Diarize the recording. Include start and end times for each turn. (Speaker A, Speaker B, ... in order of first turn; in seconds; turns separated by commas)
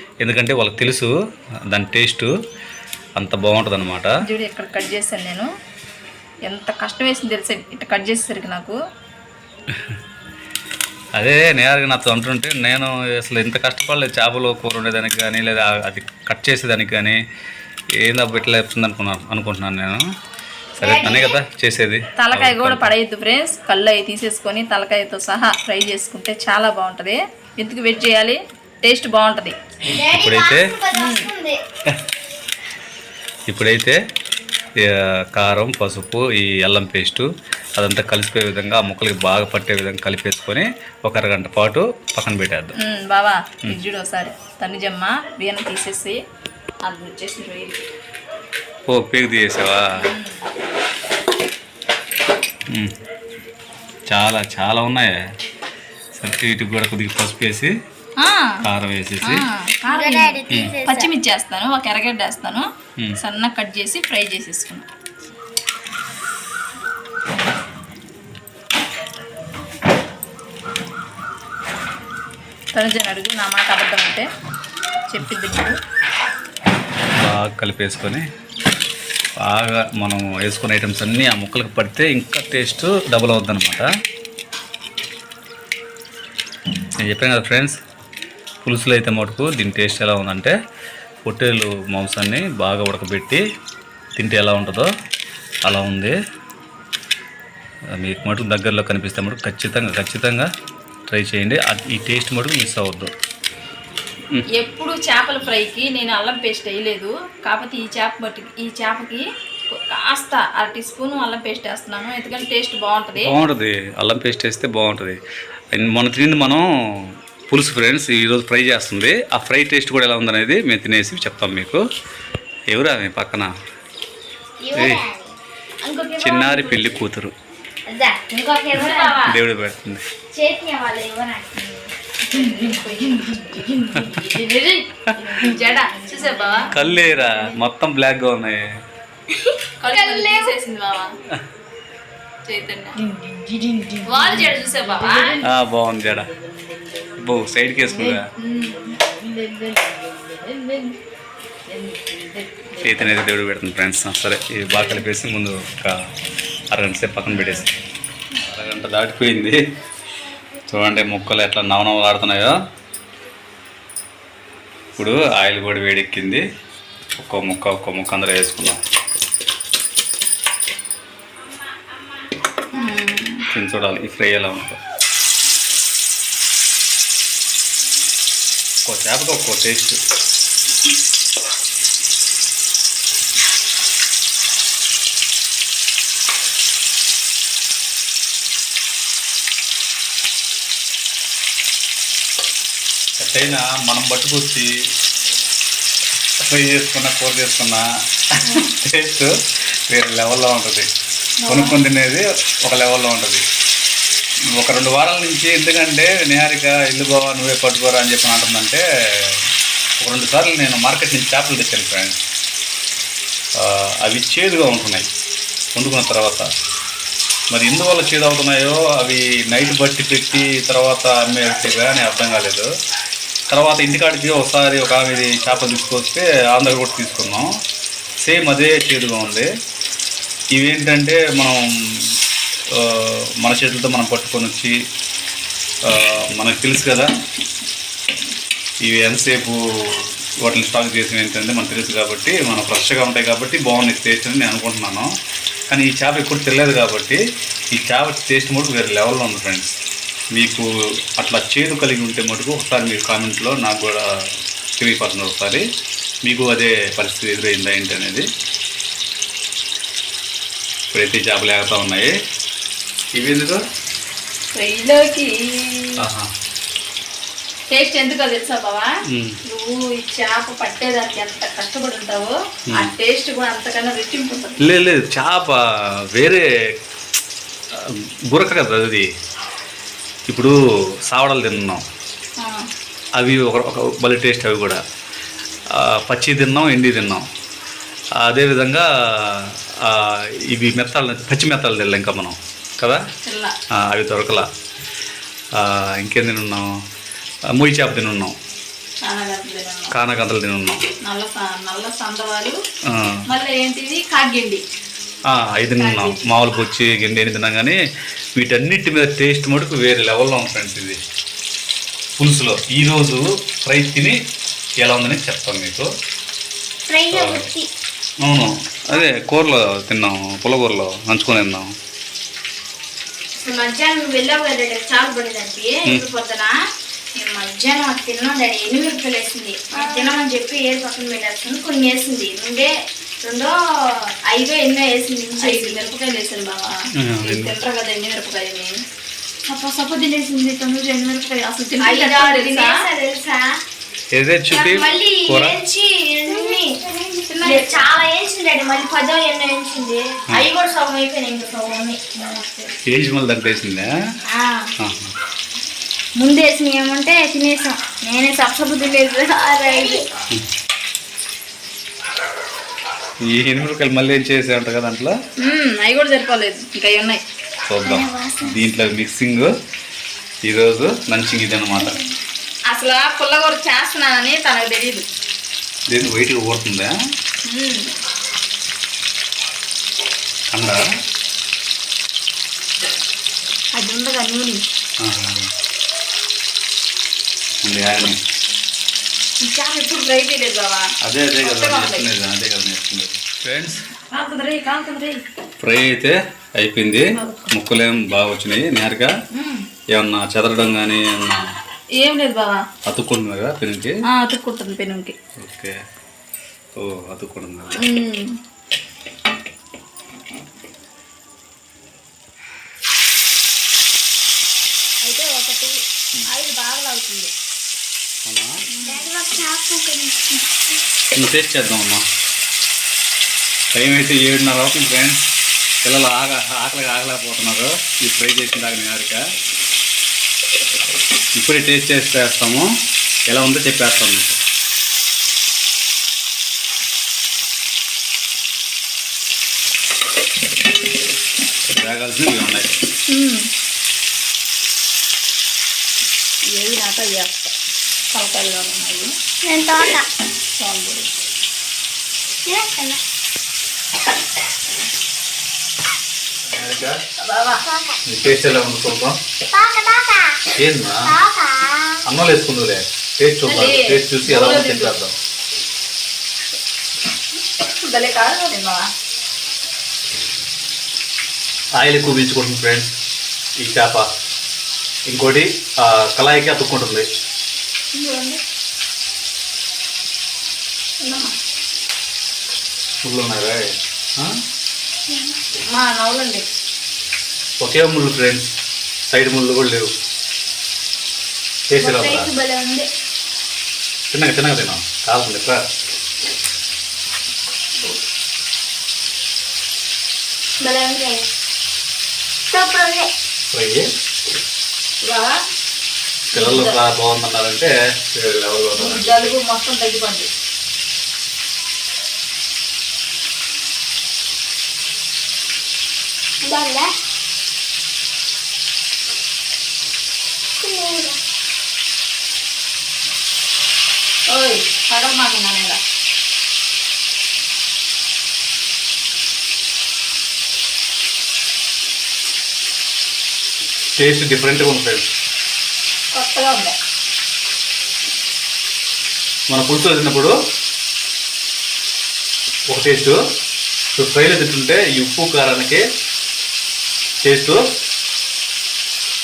Speaker A: 0.2-1.1, Speaker A: 1.7-2.3, Speaker A: 3.2-4.1, Speaker B: 4.2-5.5, Speaker B: 6.5-8.8, Speaker A: 9.7-10.0, Speaker A: 11.2-17.2, Speaker A: 18.0-20.0, Speaker C: 20.8-21.4, Speaker A: 20.8-22.9, Speaker B: 22.2-29.6, Speaker C: 29.9-31.6, Speaker A: 30.1-30.7, Speaker B: 30.9-31.3, Speaker A: 33.5-34.0, Speaker A: 34.9-42.8, Speaker B: 42.8-46.1, Speaker B: 46.8-47.9, Speaker A: 48.9-49.9, Speaker B: 50.0-50.4, Speaker A: 54.1-55.2, Speaker A: 56.2-57.7, Speaker B: 58.2-58.5, Speaker A: 58.6-59.4, Speaker B: 59.2-62.6, Speaker C: 59.9-61.1, Speaker B: 63.2-64.8, Speaker B: 72.7-74.3, Speaker B: 75.1-75.8, Speaker A: 77.2-78.2, Speaker A: 79.4-83.9, Speaker A: 87.0-87.8, Speaker A: 88.6-90.5, Speaker A: 91.2-93.4, Speaker A: 94.2-94.9, Speaker A: 95.7-96.1, Speaker A: 97.9-100.5, Speaker A: 101.1-103.1, Speaker B: 104.5-113.3, Speaker A: 113.2-115.2, Speaker A: 115.7-121.8, Speaker A: 122.7-123.5, Speaker C: 124.6-125.3, Speaker A: 124.7-125.0, Speaker C: 125.9-126.8, Speaker A: 126.2-127.3, Speaker C: 127.8-129.4, Speaker B: 128.7-129.2, Speaker A: 129.2-130.0, Speaker C: 130.3-131.5, Speaker B: 131.6-133.4, Speaker C: 132.3-134.9, Speaker B: 135.3-136.7, Speaker C: 135.7-136.7, Speaker A: 136.7-138.6, Speaker C: 139.4-140.5, Speaker B: 139.8-141.1, Speaker B: 142.4-143.0, Speaker B: 144.0-145.4, Speaker A: 145.4-146.3, Speaker A: 147.2-148.3, Speaker B: 147.9-149.7, Speaker B: 150.5-150.9, Speaker B: 151.9-152.6, Speaker A: 152.8-155.9, Speaker A: 156.7-157.7, Speaker B: 157.3-157.7, Speaker A: 158.4-159.6, Speaker A: 160.7-162.6, Speaker A: 164.9-166.4, Speaker A: 167.2-168.8, Speaker B: 172.7-173.4, Speaker A: 173.5-174.8, Speaker A: 178.8-180.0, Speaker A: 193.2-194.7, Speaker A: 196.4-199.3, Speaker B: 198.4-198.7, Speaker A: 199.9-200.9, Speaker B: 201.4-201.8, Speaker A: 201.5-203.4, Speaker A: 204.6-209.5, Speaker A: 210.0-212.2, Speaker A: 213.6-215.1, Speaker A: 215.7-216.5, Speaker A: 217.5-222.7, Speaker A: 223.5-227.5, Speaker A: 228.2-229.5, Speaker A: 230.5-232.2, Speaker A: 232.7-234.7, Speaker A: 235.8-237.1, Speaker A: 238.8-245.1, Speaker A: 245.7-247.2, Speaker A: 247.7-249.8, Speaker A: 250.3-254.1, Speaker A: 254.8-255.7, Speaker A: 256.2-258.3, Speaker A: 260.9-262.1, Speaker A: 263.1-263.6, Speaker B: 264.5-265.9, Speaker A: 266.0-266.3, Speaker B: 267.7-268.9, Speaker A: 269.1-269.4, Speaker B: 269.4-274.7, Speaker A: 274.6-275.6, Speaker A: 276.1-276.4, Speaker A: 277.7-279.1, Speaker A: 280.3-280.6, Speaker A: 281.1-281.8, Speaker A: 283.2-284.8, Speaker A: 285.7-287.2, Speaker A: 288.2-293.0, Speaker B: 293.2-293.5, Speaker A: 293.8-294.5, Speaker A: 295.6-296.7, Speaker A: 297.5-298.4, Speaker B: 299.0-299.9, Speaker A: 299.9-300.8, Speaker B: 301.0-302.6, Speaker A: 302.9-303.2, Speaker B: 303.3-304.6, Speaker A: 305.3-307.8, Speaker B: 305.6-306.3, Speaker A: 308.4-311.0, Speaker A: 312.2-314.2, Speaker A: 314.8-315.9, Speaker C: 316.9-317.7, Speaker A: 317.1-317.5, Speaker A: 318.2-321.7, Speaker C: 323.4-326.5, Speaker C: 327.1-333.6, Speaker B: 329.7-330.2, Speaker C: 334.3-335.8, Speaker B: 335.4-338.8, Speaker A: 337.0-337.5, Speaker B: 339.5-342.8, Speaker C: 341.8-343.5, Speaker A: 344.1-345.6, Speaker C: 344.5-352.0, Speaker B: 347.3-347.9, Speaker B: 352.2-352.7, Speaker A: 352.9-353.9, Speaker C: 354.3-354.6, Speaker A: 354.8-355.1, Speaker C: 356.1-360.0, Speaker A: 363.2-365.1, Speaker B: 365.4-367.2, Speaker A: 367.6-369.5, Speaker C: 367.8-368.6, Speaker A: 370.5-372.0, Speaker B: 372.7-375.1, Speaker A: 375.9-376.9, Speaker B: 377.4-377.9, Speaker A: 380.5-380.9, Speaker B: 383.7-384.6, Speaker A: 385.0-385.5, Speaker A: 387.6-388.2, Speaker B: 389.4-390.9, Speaker A: 391.0-393.8, Speaker B: 391.4-392.1, Speaker B: 393.9-395.2, Speaker A: 395.6-399.1, Speaker B: 397.2-397.5, Speaker B: 399.3-399.6, Speaker A: 399.9-401.4, Speaker B: 402.0-402.6, Speaker A: 402.8-404.0, Speaker B: 404.1-405.1, Speaker A: 405.4-405.8, Speaker A: 406.8-407.8, Speaker B: 407.8-408.3, Speaker B: 415.0-417.3, Speaker A: 418.2-418.5, Speaker B: 418.7-419.1, Speaker C: 418.8-420.6, Speaker A: 421.1-422.0, Speaker A: 423.7-425.3, Speaker A: 425.8-429.2, Speaker A: 431.4-432.7, Speaker A: 433.3-434.4, Speaker A: 441.7-442.7, Speaker B: 443.1-443.5, Speaker B: 446.5-447.5, Speaker B: 448.1-449.1, Speaker C: 449.4-450.1, Speaker B: 450.5-451.3, Speaker C: 452.4-453.0, Speaker A: 456.4-457.0, Speaker B: 457.2-457.6, Speaker C: 457.6-458.0, Speaker A: 458.1-459.2, Speaker C: 459.5-460.4, Speaker A: 460.5-461.1, Speaker C: 461.0-462.0, Speaker A: 462.1-465.1, Speaker B: 463.4-464.9, Speaker B: 467.8-468.9, Speaker A: 471.8-472.9, Speaker A: 473.6-474.1, Speaker A: 475.1-477.1, Speaker B: 477.9-478.4, Speaker B: 481.0-481.3, Speaker A: 483.0-484.3, Speaker B: 485.6-486.4, Speaker A: 487.6-488.5, Speaker A: 489.0-489.9, Speaker A: 491.7-492.3, Speaker C: 491.8-492.9, Speaker A: 494.1-495.6, Speaker C: 500.6-501.2, Speaker C: 502.5-503.1, Speaker A: 503.5-503.9, Speaker B: 505.0-505.3, Speaker A: 506.3-509.3, Speaker B: 506.3-506.8, Speaker B: 508.8-510.3, Speaker C: 516.4-516.9, Speaker C: 520.6-521.2, Speaker B: 524.3-525.8, Speaker A: 534.0-535.1, Speaker B: 536.1-536.8, Speaker A: 539.5-540.3, Speaker A: 542.7-543.2, Speaker A: 544.0-545.8, Speaker A: 547.2-547.6